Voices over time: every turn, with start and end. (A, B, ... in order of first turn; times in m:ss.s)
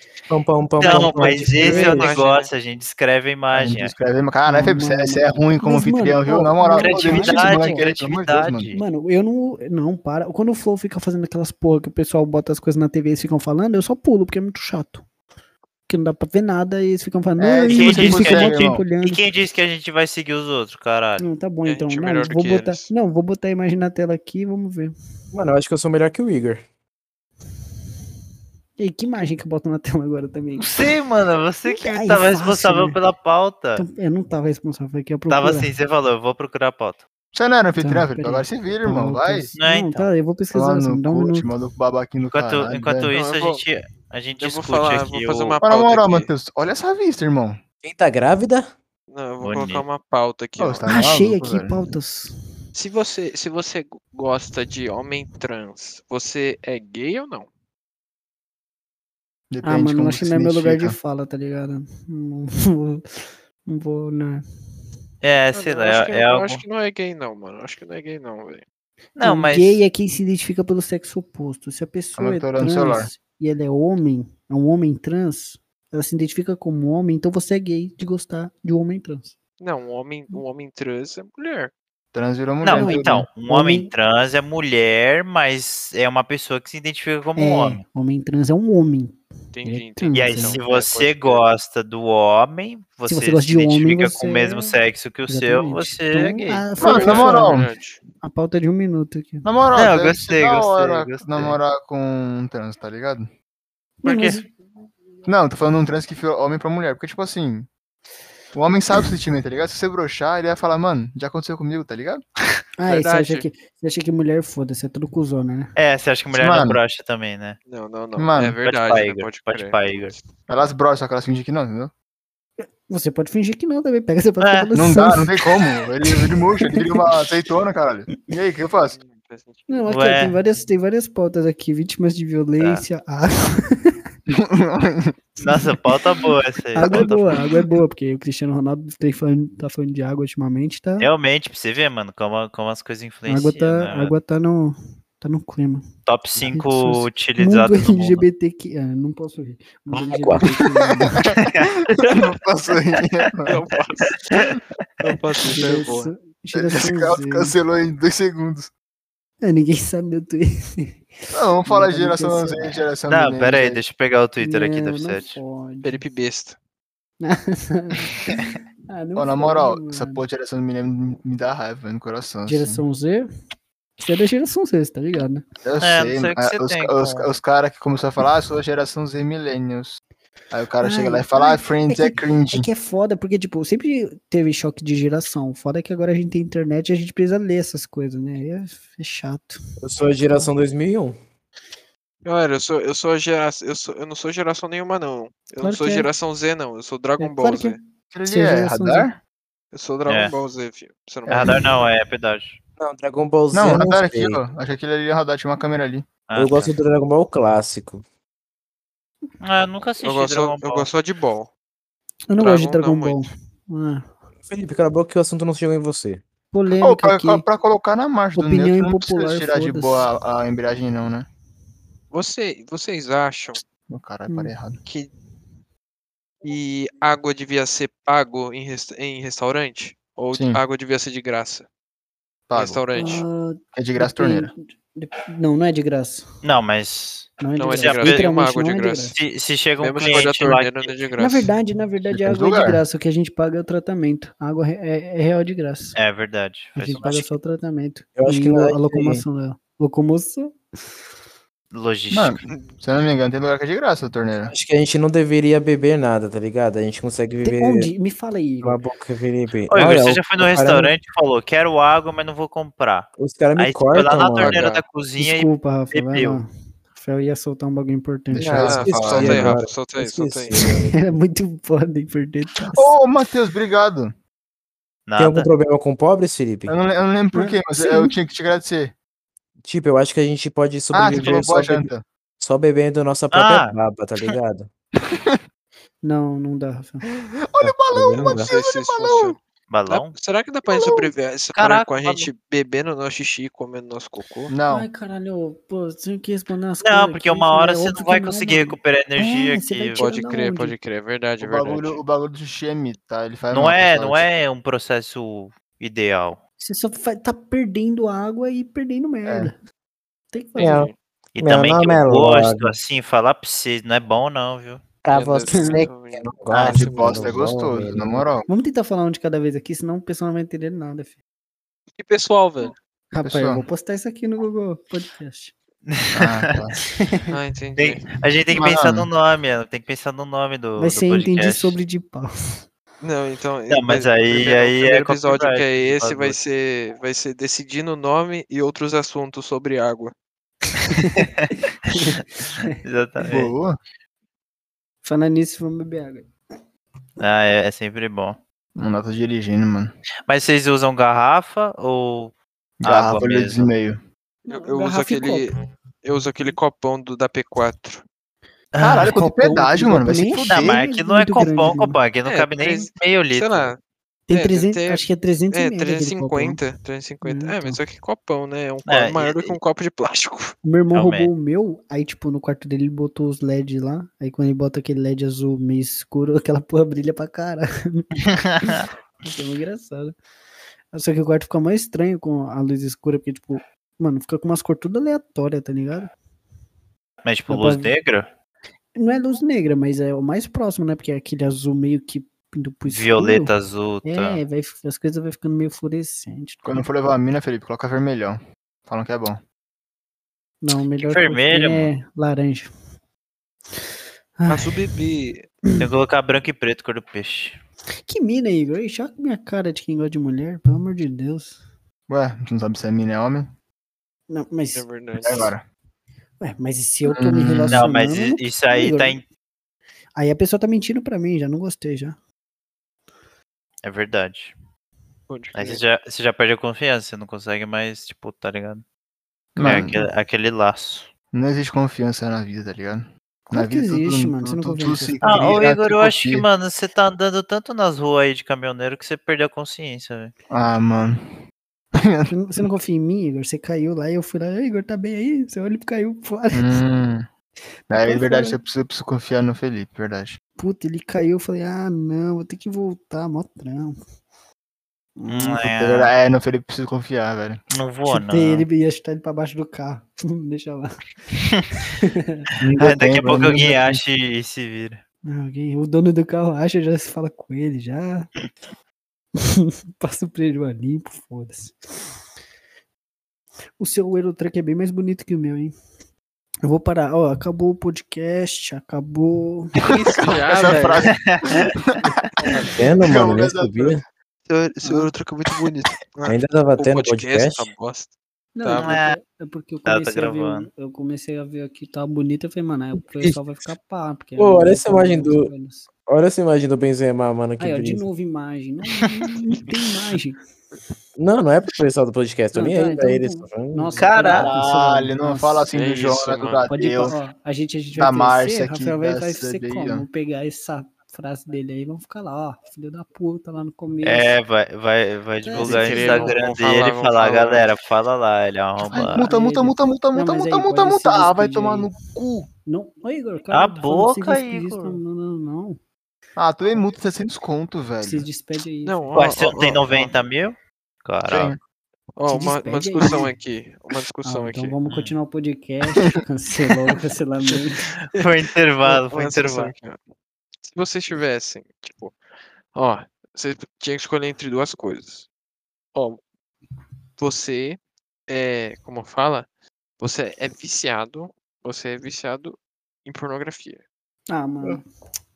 0:00.3-0:01.8 A
0:00.8-0:03.9 B
0:00.8-0:02.1 C
0:01.4-0:02.5 D
0:03.5-0:08.7 E
0:04.4-0:07.8 C
0:06.8-0:08.8 B
0:08.7-0:15.0 C
0:15.9-0:19.2 C
0:17.4-0:18.8 E
0:17.7-0:21.2 B
0:21.2-0:24.9 C
0:21.6-0:22.9 D
0:25.3-0:26.6 A
0:28.8-0:30.8 C
0:30.6-0:33.8 B
0:31.6-0:33.0 C
0:33.8-0:35.7 C
0:35.3-0:37.0 B
0:37.3-0:39.5 E
0:37.8-0:41.5 C
0:39.5-0:40.1 B
0:40.5-0:43.1 E
0:42.3-0:45.6 B
0:43.1-0:43.6 D
0:44.4-0:46.3 D
0:45.6-0:47.6 E
0:47.8-0:48.7 A
0:49.1-0:50.9 D
0:49.4-0:49.8 B
0:50.6-0:51.9 E
0:50.8-0:52.3 C
0:52.7-0:57.5 D
0:59.5-1:01.0 E
0:59.6-1:03.0 C
1:03.6-1:04.4 C
1:05.2-1:06.6 B
1:05.5-1:08.6 D
1:09.2-1:09.8 B
1:09.2-1:19.4 C
1:12.2-1:13.1 E
1:19.6-1:21.7 D
1:22.1-1:23.3 E
1:22.6-1:27.8 B
1:22.6-1:23.9 C
1:27.4-1:30.6 C
1:29.5-1:31.5 D
1:30.1-1:37.2 B
1:33.0-1:37.6 C
1:36.8-1:37.7 E
1:36.8-1:38.0 D
1:38.2-1:39.4 C
1:39.4-1:43.3 E
1:39.7-1:41.6 B
1:44.0-1:44.5 C
1:44.0-1:44.4 B
1:45.2-1:47.7 E
1:48.5-1:52.2 E
1:52.8-1:55.7 C
1:52.9-1:53.4 D
1:55.8-1:57.6 B
1:56.3-1:56.8 E
1:57.7-2:00.2 D
1:58.2-1:58.6 E
1:58.6-2:00.2 B
2:00.5-2:01.9 E
2:02.6-2:07.0 C
2:04.4-2:04.7 B
2:04.7-2:09.0 E
2:08.8-2:09.9 D
2:09.7-2:13.9 C
2:09.9-2:10.4 B
2:12.6-2:12.8 B
2:14.3-2:15.2 E
2:15.4-2:17.4 B
2:16.7-2:21.1 C
2:21.0-2:24.2 B
2:23.3-2:31.3 C
2:26.0-2:28.2 B
2:29.9-2:30.5 A
2:30.8-2:33.6 E
2:33.5-2:34.4 D
2:34.3-2:35.0 B
2:35.0-2:36.1 D
2:35.5-2:37.6 C
2:36.5-2:38.7 E
2:39.4-2:41.0 C
2:41.3-2:43.8 E
2:41.6-2:42.9 C
2:43.1-2:45.4 B
2:44.4-2:46.0 C
2:45.8-2:46.6 D
2:47.2-2:50.2 C
2:49.2-2:52.8 E
2:52.5-2:53.3 C
2:54.0-2:55.4 C
2:55.6-3:00.0 E
2:55.8-2:57.3 B
3:00.5-3:02.7 E
3:00.8-3:09.6 C
3:09.8-3:11.2 A
3:12.2-3:17.8 D
3:15.6-3:16.1 C
3:17.2-3:19.1 C
3:18.1-3:19.2 E
3:19.7-3:21.5 D
3:20.1-3:20.4 B
3:21.3-3:21.5 E
3:21.3-3:22.6 B
3:22.8-3:24.4 A
3:23.5-3:26.1 E
3:26.3-3:26.7 B
3:26.3-3:28.0 A
3:29.4-3:30.9 B
3:30.0-3:31.5 D
3:32.3-3:34.1 C
3:32.4-3:33.2 D
3:34.5-3:36.2 A
3:36.5-3:37.4 C
3:36.8-3:41.3 E
3:38.4-3:40.1 C
3:42.1-3:43.6 D
3:43.9-3:44.8 E
3:44.3-3:44.5 C
3:44.8-3:45.1 D
3:46.4-3:51.7 D
3:50.3-3:50.6 E
3:52.5-3:52.8 E
3:52.5-3:53.2 D
3:52.9-3:56.2 C
3:53.7-3:54.5 E
3:56.4-3:58.3 B
3:57.4-3:59.2 C
3:57.6-3:59.1 D
3:59.1-4:00.9 B
3:59.8-4:01.5 D
4:01.2-4:06.0 C
4:02.2-4:02.8 E
4:05.9-4:07.3 B
4:06.8-4:10.5 C
4:08.2-4:09.2 A
4:11.7-4:12.5 B
4:12.1-4:14.5 E
4:14.5-4:17.9 A
4:17.4-4:18.8 C
4:18.6-4:20.9 A
4:19.7-4:26.4 B
4:23.2-4:24.6 A
4:24.4-4:24.8 D
4:25.2-4:28.8 C
4:28.3-4:29.6 E
4:28.4-4:31.0 A
4:28.5-4:30.5 D
4:30.5-4:32.9 C
4:32.6-4:34.1 E
4:35.0-4:35.5 B
4:35.2-4:36.7 A
4:36.7-4:38.9 E
4:37.3-4:38.1 C
4:39.6-4:41.9 A
4:40.9-4:42.0 E
4:42.4-4:44.7 A
4:43.3-4:44.3 B
4:46.0-4:47.0 C
4:47.3-4:49.4 E
4:47.6-4:48.5 A
4:48.2-4:54.5 D
4:49.7-4:50.1 B
4:50.7-4:51.1 E
4:51.5-4:52.3 B
4:54.5-4:54.9 E
4:54.7-5:00.8 C
4:56.8-5:00.0 B
5:00.0-5:02.0 D
5:01.4-5:04.3 E
5:03.5-5:06.4 B
5:06.6-5:09.6 C
5:09.2-5:09.5 E
5:10.3-5:10.9 C
5:10.6-5:10.9 D
5:10.6-5:12.8 A
5:11.4-5:14.8 B
5:15.0-5:18.2 A
5:15.1-5:17.4 D
5:15.5-5:15.8 C
5:16.5-5:18.5 E
5:18.5-5:21.2 C
5:22.0-5:22.7 D
5:23.1-5:25.5 C
5:23.2-5:23.6 E
5:25.9-5:26.6 B
5:26.1-5:26.8 E
5:26.9-5:27.2 C
5:27.3-5:28.0 D
5:27.8-5:31.8 B
5:28.5-5:29.1 E
5:30.8-5:32.6 C
5:33.0-5:40.1 D
5:33.7-5:36.4 B
5:41.0-5:43.5 B
5:41.9-5:42.7 C
5:43.2-5:43.8 E
5:45.0-5:46.3 C
5:47.2-5:48.4 B
5:48.8-5:50.0 E
5:50.3-5:53.7 B
5:52.8-5:54.0 E
5:54.4-5:55.5 C
5:54.5-5:58.0 D
5:58.7-5:59.1 B
5:58.8-6:00.8 E
5:59.0-6:02.0 C
6:00.4-6:03.7 B
6:02.2-6:10.5 D
6:04.3-6:06.6 C
6:07.2-6:07.8 C
6:08.8-6:09.6 B
6:10.6-6:18.1 C
6:10.9-6:11.3 B
6:18.4-6:18.9 B
6:18.6-6:20.2 C
6:20.9-6:26.1 C
6:27.2-6:28.2 B
6:27.5-6:27.9 C
6:28.9-6:33.5 C
6:32.8-6:34.4 B
6:34.0-6:36.9 C
6:36.6-6:39.4 E
6:40.6-6:42.7 C
6:41.0-6:41.9 B
6:44.4-6:44.7 C
6:44.5-6:45.5 D
6:45.8-6:47.6 B
6:48.1-6:51.6 C
6:52.1-6:53.5 E
6:54.3-6:55.5 C
6:54.7-6:55.5 D
6:55.2-6:55.6 E
6:56.4-6:59.2 C
6:57.0-6:57.9 E
6:57.7-6:59.2 B
7:00.2-7:02.2 C
7:03.8-7:04.5 B
7:05.3-7:05.8 D
7:05.5-7:08.8 B
7:09.5-7:10.0 E
7:09.6-7:11.1 B
7:11.3-7:16.5 E
7:13.5-7:15.6 C
7:15.2-7:20.3 B
7:20.5-7:21.3 E
7:22.0-7:22.6 E
7:22.3-7:26.8 C
7:26.5-7:27.3 E
7:27.9-7:30.4 E
7:27.9-7:28.6 C
7:30.6-7:33.9 C
7:35.2-7:35.6 C
7:35.3-7:36.1 B
7:35.6-7:37.6 E
7:37.7-7:38.7 B
7:38.0-7:40.9 C
7:41.4-7:41.6 B
7:41.8-7:42.5 C
7:42.6-7:44.0 E
7:42.8-7:45.0 B
7:45.2-7:48.3 C
7:49.4-7:52.2 C
7:53.8-7:55.7 C
7:56.6-7:59.8 C
7:59.8-8:01.1 D
8:00.0-8:02.1 E
8:01.0-8:01.7 B
8:02.4-8:02.8 D
8:02.6-8:04.0 E
8:02.7-8:04.0 A
8:04.5-8:09.0 D
8:04.8-8:05.1 C
8:05.5-8:05.9 E
8:06.3-8:07.7 A
8:08.5-8:15.9 C
8:08.7-8:09.2 B
8:09.8-8:10.7 B
8:14.4-8:15.5 A
8:16.1-8:18.0 A
8:17.6-8:20.4 C
8:21.2-8:23.9 A
8:22.5-8:34.4 C
8:24.0-8:24.5 B
8:24.4-8:27.2 E
8:25.7-8:26.7 D
8:28.0-8:30.1 E
8:34.0-8:39.2 B
8:35.4-8:36.4 C
8:35.6-8:37.7 D
8:38.8-8:41.9 C
8:38.9-8:42.5 E
8:42.7-8:45.8 C
8:43.5-8:45.0 B
8:46.4-8:48.3 E
8:48.0-8:49.2 C
8:48.8-8:50.1 D
8:49.1-8:51.6 B
8:51.2-8:51.6 E
8:52.2-8:54.8 D
8:52.3-8:53.3 C
8:54.2-8:57.8 C
8:54.9-8:55.1 B
8:58.1-8:59.7 B
8:58.8-9:00.0 D
9:00.6-9:02.2 D
9:02.7-9:05.3 D
9:05.9-9:06.2 D
9:07.2-9:09.4 D
9:10.0-9:13.8 D
9:14.3-9:14.8 C